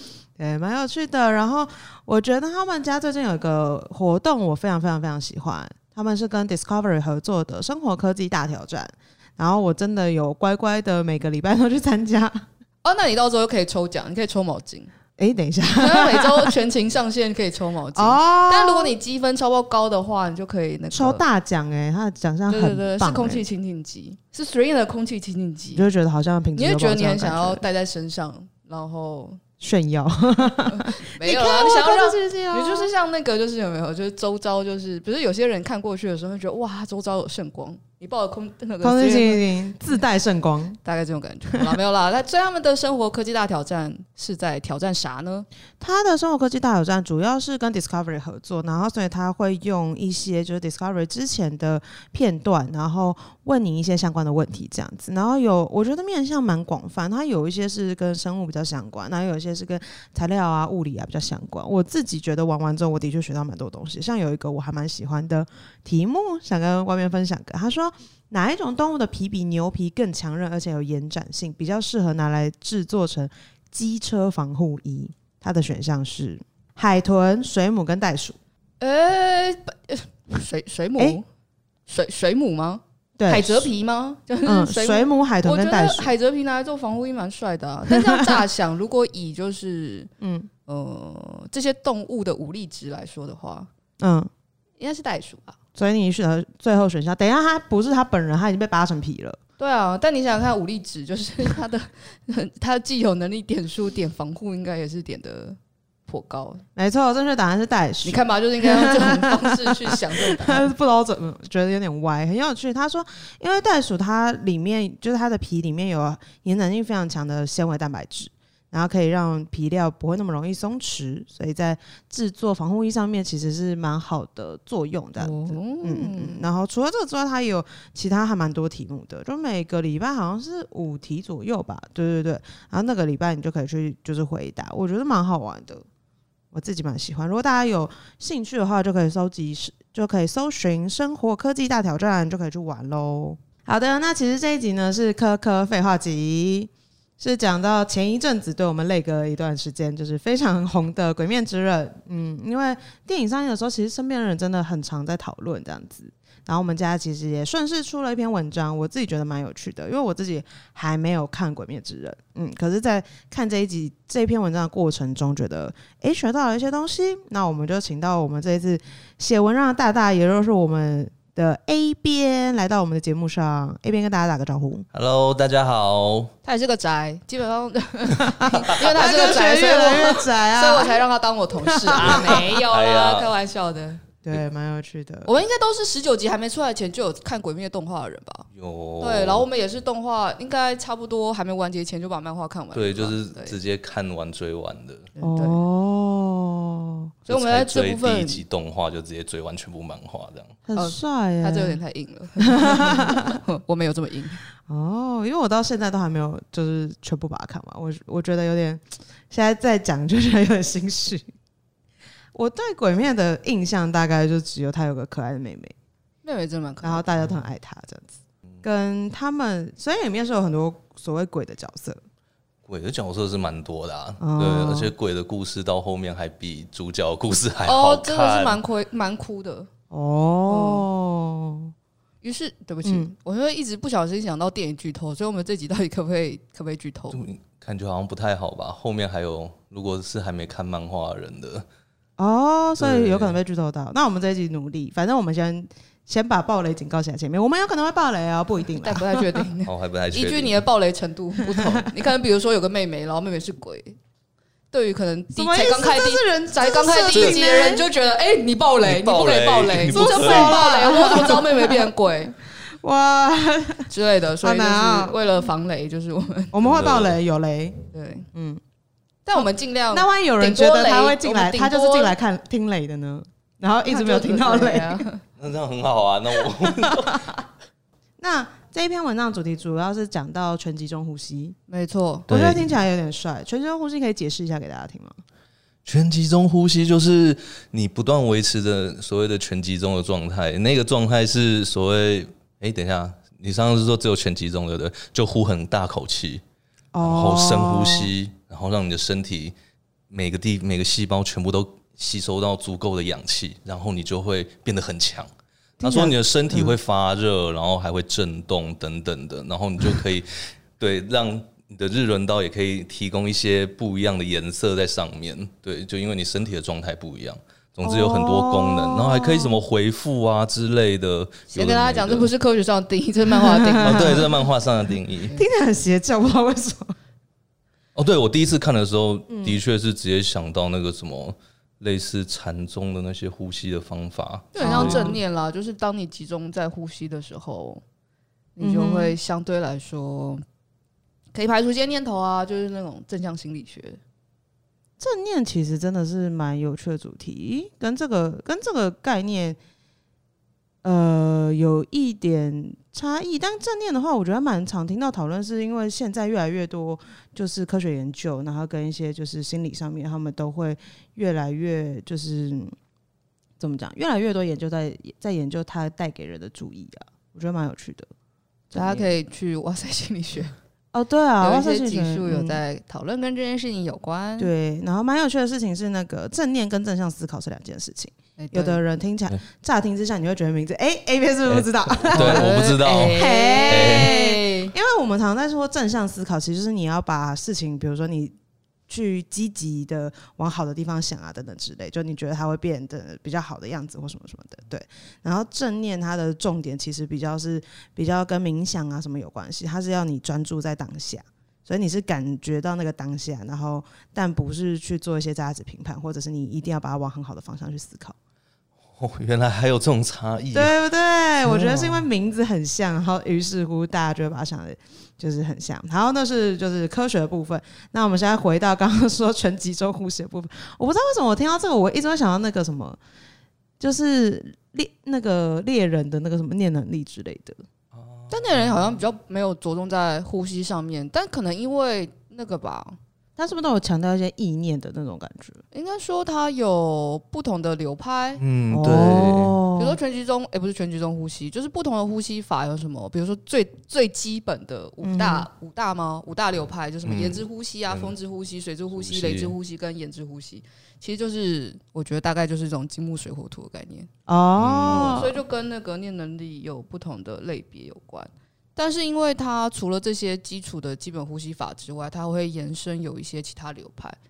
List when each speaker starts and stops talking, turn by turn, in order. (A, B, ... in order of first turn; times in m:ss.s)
0:00.4-0:12.4 A
0:12.8-0:14.9 B
0:15.2-0:16.5 A
0:15.7-0:21.2 B
0:17.9-0:18.9 A
0:20.9-0:23.4 A
0:22.5-0:25.9 B
0:25.7-0:27.6 A
0:26.5-0:29.4 B
0:29.6-0:32.9 A
0:30.6-0:40.0 B
0:38.8-0:40.8 A
0:40.8-0:45.5 B
0:45.8-1:18.4 A
1:18.8-1:21.2 B
1:21.9-1:30.1 B
1:23.2-1:23.7 A
1:24.4-1:26.1 A
1:27.9-1:28.3 A
1:30.2-1:30.5 A
1:30.7-1:33.7 B
1:34.0-1:34.3 A
1:34.8-1:35.6 B
1:35.8-1:39.4 A
1:39.6-1:46.6 B
1:46.8-2:15.9 A
1:48.0-1:50.7 B
2:05.2-2:06.4 B
2:16.5-2:54.8 A
2:54.9-2:56.3 C
2:56.4-3:04.0 B
2:58.2-3:01.0 A
3:01.6-3:02.4 A
3:02.0-3:03.3 C
3:04.2-3:05.3 A
3:05.2-3:08.5 B
3:08.5-3:09.4 C
3:09.0-3:13.6 B
3:12.7-3:15.1 C
3:15.2-3:15.6 B
3:15.2-3:17.1 A
3:17.3-3:20.6 C
3:17.3-3:18.4 B
3:20.7-3:21.8 A
3:20.8-3:24.4 B
3:22.4-3:23.4 A
3:24.7-3:31.3 A
3:32.3-3:35.7 A
3:36.2-3:37.1 B
3:36.8-3:42.0 A
3:42.6-3:48.6 C
3:44.2-3:44.9 A
3:47.6-3:49.7 B
3:49.9-3:51.7 A
3:50.5-3:50.8 B
3:52.2-3:57.2 B
3:52.8-3:53.1 A
3:57.1-4:01.6 C
4:02.2-4:09.3 A
4:02.8-4:03.4 C
4:08.8-4:14.0 B
4:09.6-4:10.6 C
4:14.7-4:22.4 B
4:15.3-4:17.8 A
4:17.1-4:17.4 C
4:18.8-4:20.6 C
4:19.9-4:21.9 A
4:22.6-4:23.9 A
4:23.9-4:26.5 B
4:24.4-4:25.2 A
4:26.5-4:27.8 A
4:26.6-4:27.2 C
4:27.9-4:28.3 B
4:28.3-4:28.6 A
4:29.2-4:32.1 B
4:29.4-4:35.0 A
4:33.8-4:35.2 B
4:35.4-4:37.3 C
4:36.8-4:37.2 A
4:38.2-4:41.6 A
4:41.7-4:42.3 B
4:42.3-4:42.8 C
4:42.3-4:45.2 A
4:45.8-4:56.4 C
4:56.9-4:58.1 A
4:57.0-4:59.5 C
5:00.1-5:22.3 C
5:05.8-5:06.8 A
5:17.8-5:19.6 A
5:21.5-5:24.3 B
5:23.6-5:24.3 A
5:23.8-5:25.3 C
5:25.3-5:27.0 A
5:27.9-5:35.2 C
5:29.3-5:29.6 A
5:34.5-5:37.8 B
5:34.6-5:35.2 A
5:38.6-5:40.4 B
5:38.6-5:39.1 A
5:41.3-5:44.0 B
5:45.0-5:49.6 A
5:50.8-6:02.7 A
6:03.6-6:08.1 A
6:08.7-6:09.1 A
6:08.7-6:10.6 B
6:10.9-6:12.6 A
6:11.4-6:14.5 B
6:14.4-6:22.5 A
6:18.4-6:18.8 B
6:21.5-6:24.1 C
6:22.1-6:24.7 B
6:23.1-6:28.3 A
6:28.9-6:48.2 A
6:48.9-6:50.7 C
6:50.5-7:03.0 A
6:51.4-6:52.0 C
7:03.8-7:07.6 A
7:07.9-7:09.0 C
7:08.3-7:13.0 B
7:13.4-7:15.6 A
7:15.7-7:18.4 B
7:18.4-7:19.6 C
7:18.7-7:20.0 A
7:19.8-7:34.1 B
7:25.0-7:25.5 A
7:27.0-7:28.1 C
7:28.9-7:29.5 C
7:34.3-7:35.4 A
7:34.6-7:35.2 C
7:34.9-7:44.2 B